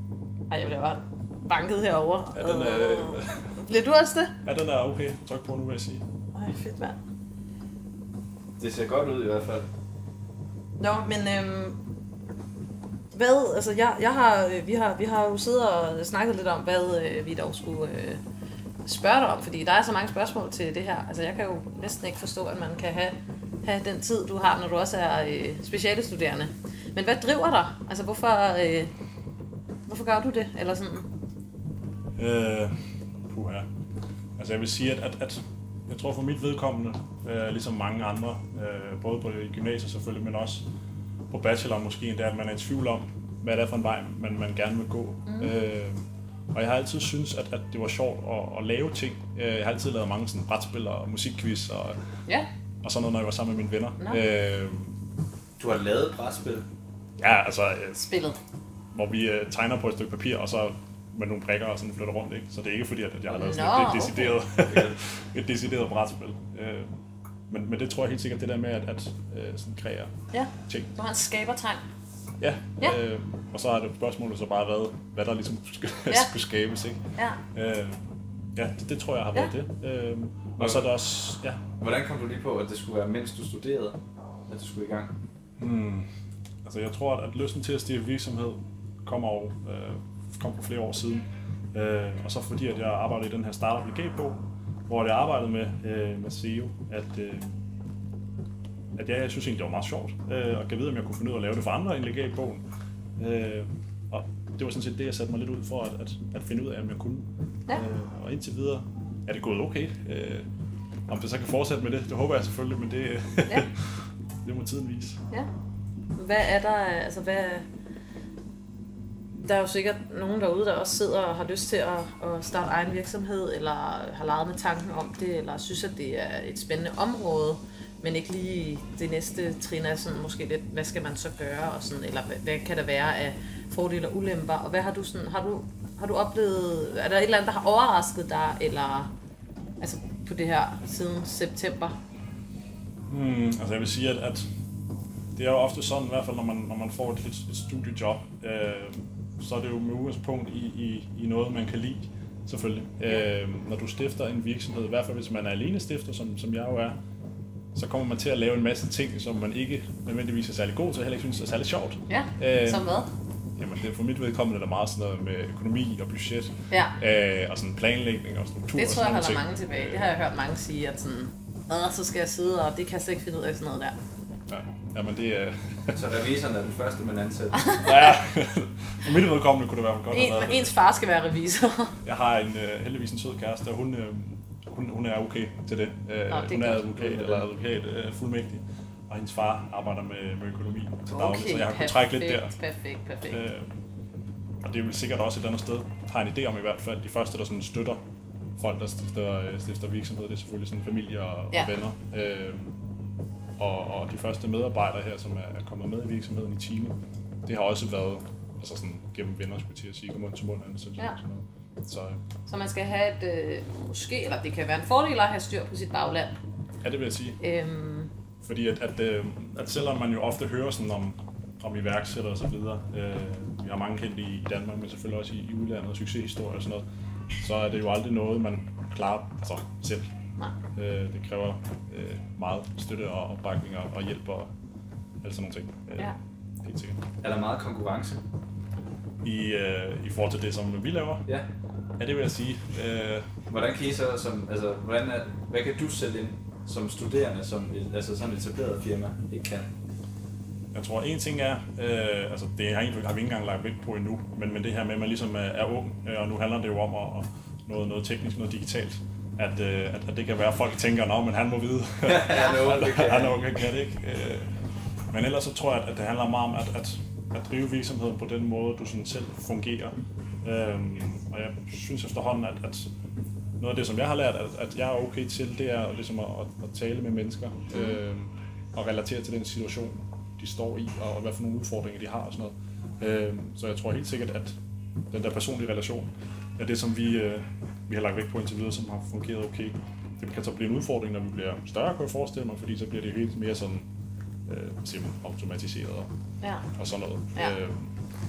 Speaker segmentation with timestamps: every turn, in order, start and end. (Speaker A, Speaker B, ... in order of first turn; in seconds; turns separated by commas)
Speaker A: 0.5-4.3, Speaker B: 2.3-3.5, Speaker B: 4.4-6.0, Speaker A: 6.3-7.0, Speaker C: 8.6-9.7, Speaker A: 10.8-11.8, Speaker A: 13.1-18.2, Speaker A: 18.8-28.9, Speaker A: 29.9-31.1, Speaker B: 32.1-32.7, Speaker B: 33.2-33.7, Speaker B: 34.4-40.6, Speaker B: 41.3-52.0, Speaker A: 45.2-45.5, Speaker B: 52.8-55.0, Speaker C: 55.6-56.6, Speaker B: 57.2-58.0, Speaker A: 57.9-58.4, Speaker B: 58.9-67.0, Speaker A: 63.3-64.3, Speaker C: 64.7-64.9, Speaker B: 67.5-70.1, Speaker A: 70.3-71.8, Speaker B: 72.4-77.0, Speaker B: 77.5-81.6, Speaker C: 80.6-80.9, Speaker C: 81.8-84.0, Speaker C: 84.5-85.1, Speaker B: 85.6-86.1, Speaker B: 86.6-97.6, Speaker B: 99.0-102.6, Speaker B: 103.2-110.5, Speaker B: 111.1-113.9, Speaker B: 114.4-115.2, Speaker A: 116.2-117.7, Speaker A: 119.3-139.1, Speaker A: 139.8-142.0, Speaker B: 143.1-144.5, Speaker B: 145.3-157.0, Speaker B: 157.7-162.9, Speaker A: 162.1-163.1, Speaker B: 163.6-170.1, Speaker A: 166.7-166.9, Speaker A: 168.7-173.9, Speaker B: 174.5-176.0, Speaker C: 175.9-177.7, Speaker A: 177.6-177.9, Speaker B: 177.8-180.7, Speaker A: 180.1-181.9, Speaker B: 182.0-192.5, Speaker A: 186.3-187.1, Speaker C: 187.1-187.3, Speaker A: 191.1-193.4, Speaker B: 193.3-193.7, Speaker B: 194.6-198.0, Speaker B: 198.6-202.8, Speaker B: 203.6-212.2, Speaker A: 212.4-216.3, Speaker B: 216.8-217.4, Speaker A: 217.4-218.1, Speaker B: 218.4-226.8, Speaker B: 227.4-230.1, Speaker B: 230.7-234.5, Speaker B: 235.2-237.0, Speaker C: 237.2-238.2, Speaker B: 239.2-241.2, Speaker B: 242.0-243.3, Speaker C: 243.5-249.7, Speaker B: 250.7-264.5, Speaker C: 262.1-263.4, Speaker B: 265.1-272.9, Speaker B: 273.6-284.6, Speaker A: 277.7-278.0, Speaker B: 285.1-293.9, Speaker B: 294.4-296.1, Speaker A: 296.4-296.7, Speaker B: 296.7-297.9